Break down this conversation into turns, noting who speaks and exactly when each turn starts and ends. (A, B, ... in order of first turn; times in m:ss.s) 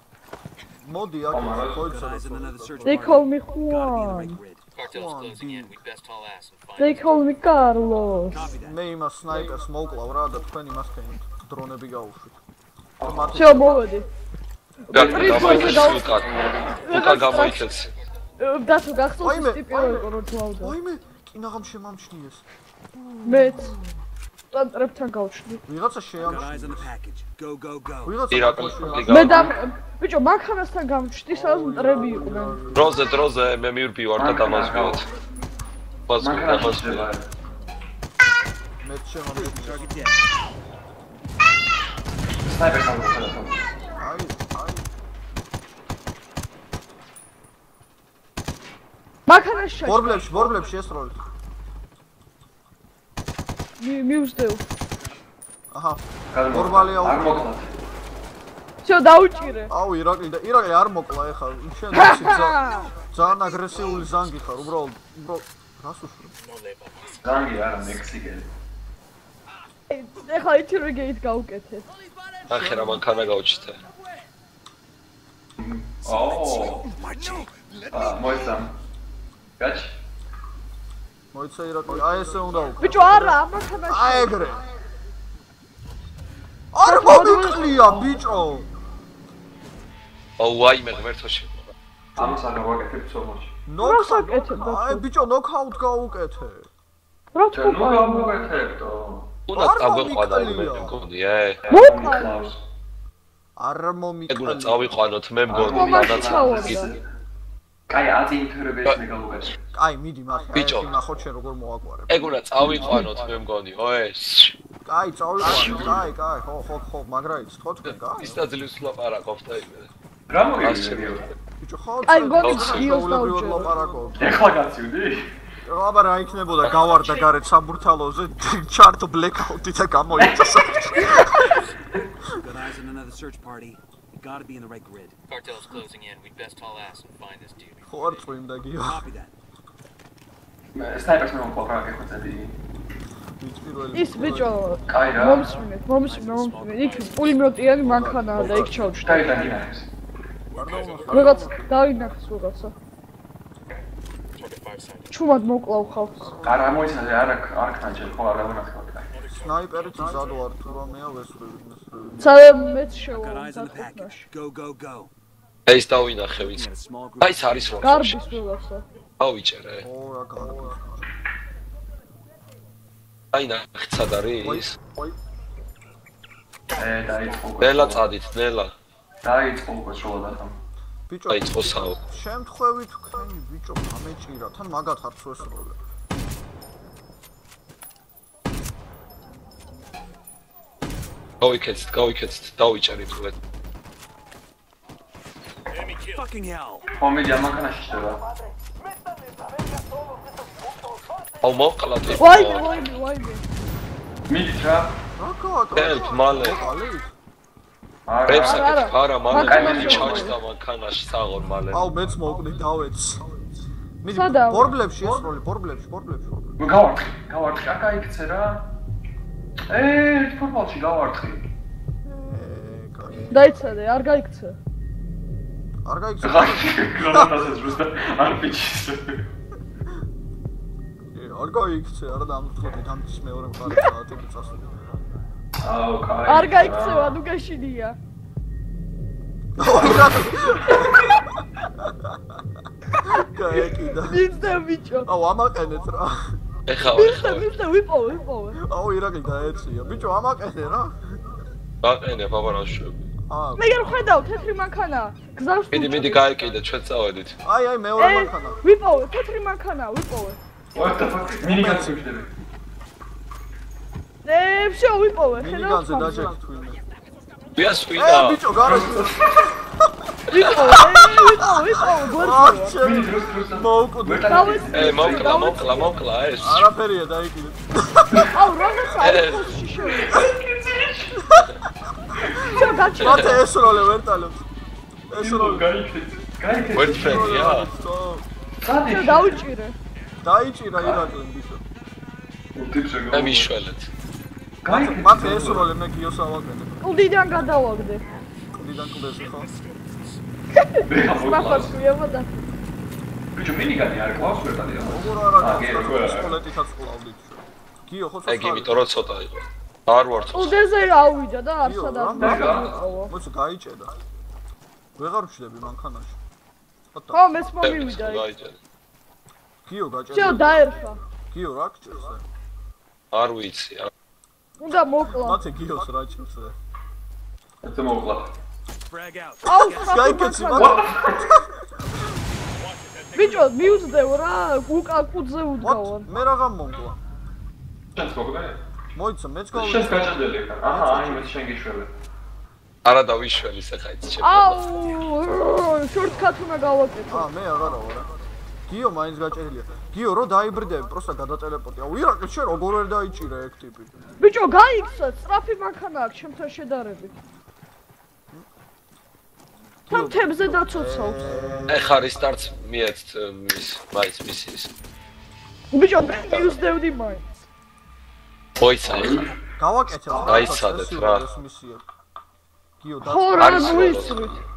0:00.8-0:03.1 A
0:01.3-0:02.0 B
0:01.8-0:04.6 C
0:02.8-0:04.4 D
0:04.7-0:07.3 E
0:04.8-0:05.8 A
0:06.8-0:08.5 D
0:08.3-0:08.8 C
0:08.6-0:12.4 A
0:13.0-0:13.4 B
0:13.0-0:13.8 A
0:13.3-0:14.1 D
0:14.9-0:17.7 D
0:14.9-0:16.3 F
0:14.9-0:16.8 B
0:16.8-0:17.9 F
0:18.4-0:20.7 D
0:19.2-0:22.4 A
0:23.0-0:23.6 A
0:23.2-0:23.7 D
0:24.5-0:25.6 D
0:25.6-0:26.9 A
0:26.2-0:28.2 C
0:28.0-0:29.4 A
0:28.3-0:29.6 F
0:29.1-0:32.6 D
0:31.3-0:33.1 A
0:32.7-0:35.0 F
0:34.2-0:35.1 B
0:36.1-0:37.1 F
0:36.2-0:37.3 B
0:38.8-0:39.9 A
0:39.3-0:40.2 C
0:42.4-0:43.6 B
0:44.0-0:44.6 A
0:49.3-0:50.6 D
0:49.8-0:51.2 A
0:53.8-0:54.6 D
0:55.7-0:57.5 A
0:56.3-0:57.7 B
0:58.8-0:59.7 D
0:59.7-1:06.3 A
1:01.9-1:02.9 D
1:06.4-1:07.2 E
1:07.2-1:08.5 B
1:09.9-1:11.8 D
1:12.5-1:13.8 F
1:15.6-1:16.9 B
1:16.9-1:17.5 C
1:17.9-1:18.7 B
1:19.6-1:20.0 B
1:21.3-1:24.6 A
1:22.8-1:24.5 D
1:26.7-1:28.7 A
1:26.8-1:28.0 D
1:30.4-1:31.7 F
1:32.1-1:32.4 A
1:32.2-1:33.5 B
1:33.7-1:36.7 A
1:33.8-1:35.0 D
1:37.3-1:38.5 D
1:37.5-1:39.3 B
1:39.5-1:41.6 F
1:39.5-1:41.0 A
1:41.6-1:42.6 B
1:41.7-1:42.5 D
1:43.6-1:44.9 A
1:44.3-1:46.8 F
1:45.5-1:47.0 B
1:45.7-1:46.9 D
1:47.9-1:49.6 B
1:49.7-1:52.2 A
1:50.5-1:50.9 F
1:52.1-1:54.5 F
1:54.8-1:58.4 A
1:55.4-1:55.8 F
1:55.5-1:56.0 B
1:57.8-1:59.9 F
2:00.3-2:01.3 B
2:00.6-2:01.2 F
2:01.6-2:04.4 A
2:02.0-2:03.7 D
2:02.4-2:02.9 F
2:04.2-2:05.2 B
2:05.6-2:11.6 A
2:10.1-2:11.2 B
2:12.4-2:15.2 C
2:15.3-2:18.3 E
2:17.9-2:19.1 A
2:18.7-2:19.3 C
2:20.7-2:22.5 B
2:23.4-2:24.5 A
2:23.9-2:29.4 D
2:24.9-2:25.5 B
2:26.2-2:27.5 E
2:26.2-2:26.8 C
2:27.8-2:29.1 A
2:29.0-2:29.9 B
2:29.1-2:29.4 E
2:30.5-2:31.3 E
2:30.5-2:31.8 A
2:31.1-2:32.7 D
2:34.3-2:35.1 E
2:35.1-2:36.3 D
2:36.2-2:36.9 A
2:36.4-2:39.1 B
2:39.1-2:40.4 E
2:39.3-2:42.2 A
2:42.2-2:44.3 D
2:43.1-2:45.1 C
2:45.7-2:46.7 F
2:46.3-2:47.7 C
2:47.2-2:48.3 F
2:47.8-2:48.8 D
2:49.2-2:49.8 F
2:49.8-2:51.1 A
2:53.3-2:54.8 F
2:54.4-2:55.1 A
2:56.7-2:58.1 B
2:57.6-2:58.7 F
2:59.2-3:00.6 B
3:01.1-3:05.8 A
3:01.3-3:02.0 F
3:11.4-3:13.4 F
3:15.8-3:16.2 E
3:16.1-3:16.9 C
3:17.0-3:18.2 B
3:21.4-3:22.7 F
3:22.2-3:23.4 D
3:24.3-3:25.0 B
3:25.2-3:27.1 A
3:25.7-3:26.7 F
3:28.0-3:30.3 B
3:28.2-3:31.9 F
3:28.3-3:30.4 D
3:31.7-3:33.2 A
3:34.0-3:36.6 A
3:34.1-3:34.8 D
3:36.6-3:38.7 B
3:39.7-3:41.4 B
3:42.0-3:43.4 A
3:43.3-3:44.6 D
3:45.8-3:47.3 A
3:46.2-3:49.2 B
3:51.1-3:54.7 A
3:55.6-3:57.2 B
3:56.3-3:58.0 D
3:59.6-4:01.1 A
4:00.5-4:01.2 D
4:03.0-4:04.2 A
4:03.0-4:05.1 D
4:05.0-4:06.4 A
4:06.7-4:07.4 F
4:06.8-4:08.6 D
4:08.6-4:11.2 A
4:11.8-4:13.0 F
4:13.3-4:13.7 A
4:13.6-4:16.3 D
4:15.7-4:17.4 F
4:17.4-4:18.6 A
4:18.0-4:20.4 D
4:20.7-4:22.3 B
4:21.4-4:22.0 A
4:24.2-4:26.3 D
4:25.3-4:26.8 A
4:27.6-4:28.4 F
4:28.0-4:29.2 A
4:28.6-4:29.4 B
4:30.3-4:32.8 D
4:30.3-4:31.0 F
4:32.2-4:34.6 A
4:32.8-4:35.5 B
4:34.3-4:35.9 D
4:34.7-4:36.7 F
4:36.4-4:38.4 A
4:38.3-4:40.2 D
4:39.0-4:39.5 F
4:40.0-4:41.3 B
4:42.2-4:42.6 B
4:42.4-4:43.4 D
4:42.6-4:44.4 A
4:43.0-4:43.3 F
4:45.1-4:45.7 A
4:45.1-4:47.3 B
4:46.7-4:47.7 F
4:46.8-4:48.2 A
4:48.6-4:49.4 B
4:48.8-4:49.8 D
4:50.2-4:51.6 A
4:50.8-4:51.0 B
4:52.5-4:53.5 B
4:53.1-4:53.9 F
4:54.6-4:55.7 B
4:54.7-4:56.9 A
4:56.8-4:58.0 D
4:58.1-5:00.2 E
4:58.5-4:59.5 A
5:00.5-5:02.4 D
5:00.8-5:01.8 B
5:03.3-5:06.4 B
5:04.8-5:08.8 A
5:08.3-5:10.5 F
5:10.3-5:13.1 D
5:11.6-5:13.9 A
5:12.2-5:12.7 B
5:15.0-5:16.2 A
5:16.9-5:17.3 A
5:17.1-5:18.2 D
5:17.6-5:18.6 F
5:19.6-5:20.7 A
5:20.1-5:21.0 D
5:21.3-5:22.2 A
5:23.1-5:23.9 F
5:24.6-5:25.4 D
5:25.1-5:26.5 A
5:27.6-5:28.3 B
5:28.9-5:29.8 C
5:29.4-5:30.8 D
5:29.6-5:32.0 A
5:30.5-5:31.2 B
5:32.5-5:34.1 E
5:33.1-5:36.1 D
5:35.6-5:37.0 A
5:37.9-5:38.6 B
5:38.9-5:41.3 A
5:39.5-5:41.9 B
5:42.8-5:44.6 F
5:44.2-5:47.3 D
5:47.1-5:48.1 A
5:48.7-5:54.0 A
5:54.2-5:57.2 D
5:59.9-6:02.0 A
5:59.9-6:01.3 D
6:01.7-6:04.7 F
6:05.7-6:07.2 D
6:08.6-6:09.3 F
6:08.8-6:09.3 B
6:09.6-6:11.8 A
6:10.1-6:10.4 B
6:10.2-6:11.2 F
6:12.8-6:14.3 A
6:13.0-6:14.4 D
6:13.3-6:14.3 F